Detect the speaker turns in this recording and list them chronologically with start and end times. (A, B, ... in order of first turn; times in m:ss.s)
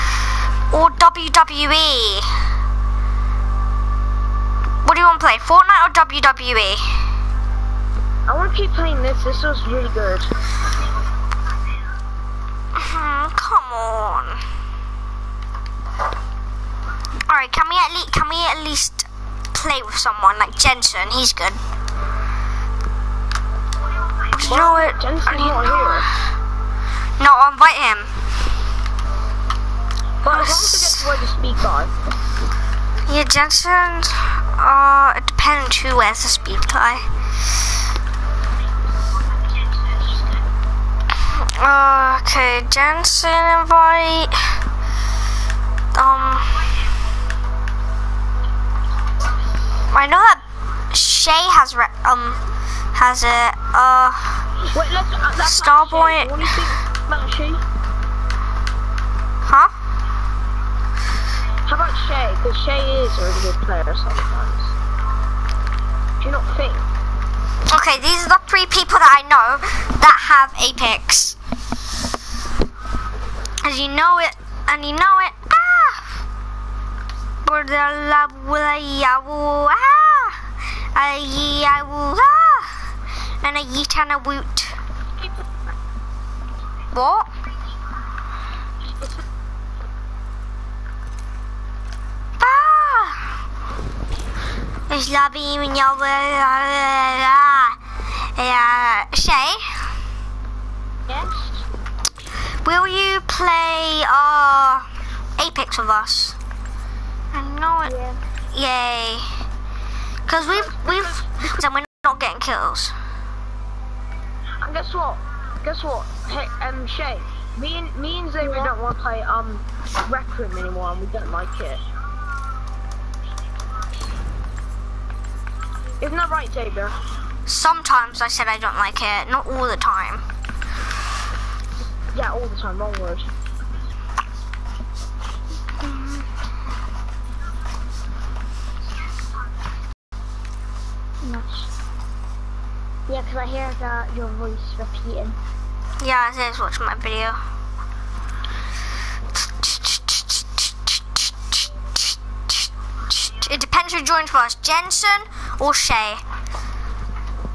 0:00.7-0:02.3 A
0:04.8-0:07.0 A
0:08.3-0:10.3 B
0:12.7-0:14.4 A
0:17.3-0:21.6 A
0:24.3-0:26.0 A
0:24.4-0:26.1 B
0:27.2-0:28.1 A
0:30.2-0:31.9 B
0:30.2-0:31.1 A
0:33.1-0:37.1 A
0:41.3-0:44.4 A
0:45.9-0:46.7 A
0:49.9-0:52.4 A
0:52.9-0:54.4 A
0:54.7-0:57.6 B
0:55.4-0:56.5 A
0:59.4-0:59.7 A
1:01.6-1:04.7 B
1:06.2-1:06.8 B
1:07.7-1:11.4 A
1:13.6-1:16.0 A
1:17.4-1:20.4 A
1:20.9-1:22.7 A
1:23.4-1:24.7 A
1:26.9-1:27.3 A
1:32.4-1:33.4 A
1:34.9-1:37.8 A
1:38.3-1:39.6 A
1:41.1-1:41.6 C
1:42.6-1:44.9 A
1:45.4-1:46.3 A
1:47.3-1:47.9 A
1:47.8-1:48.2 C
1:48.5-1:49.3 A
1:50.3-1:52.9 A
1:50.5-1:50.8 B
1:54.6-2:01.8 B
1:58.4-1:58.7 C
2:06.0-2:07.0 B
2:07.5-2:10.2 A
2:12.1-2:13.3 B
2:15.8-2:16.3 A
2:21.2-2:21.7 C
2:23.1-2:25.4 C
2:26.0-2:27.4 A
2:29.6-2:36.2 A